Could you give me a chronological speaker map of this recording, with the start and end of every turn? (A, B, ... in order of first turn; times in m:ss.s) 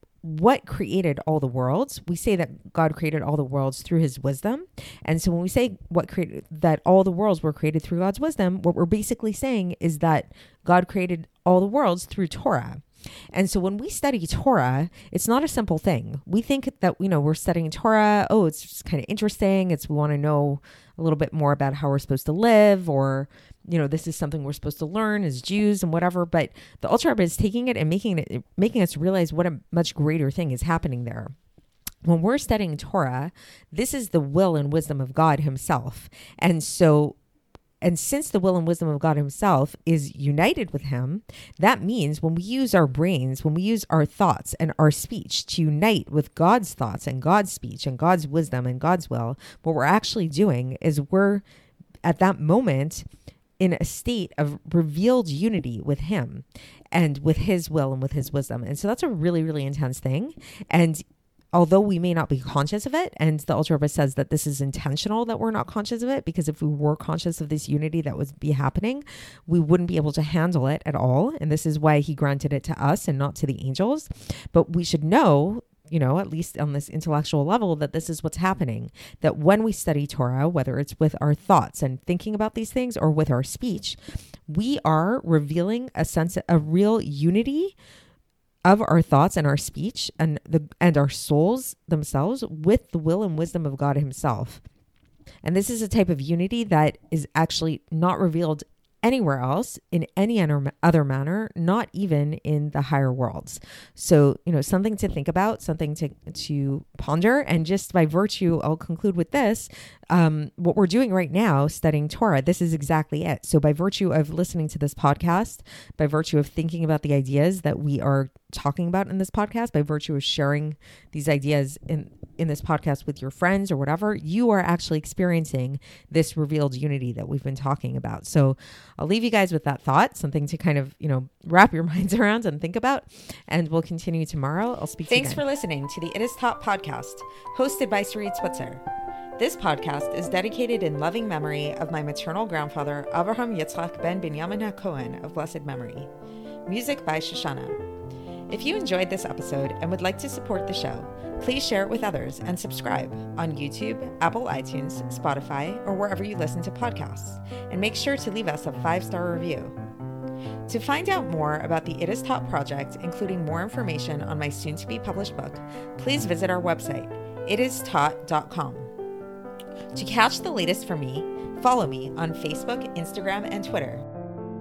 0:00.2-0:31.3 A
0:32.0-0:37.2 A
0:37.8-0:51.4 A
0:52.0-0:53.0 A
0:53.6-1:27.8 A
1:28.6-1:34.6 A
1:35.4-2:18.8 A
2:19.4-2:26.1 A
2:26.6-2:27.8 A
2:28.5-2:39.8 A
2:40.7-2:48.9 A
2:49.9-2:54.0 A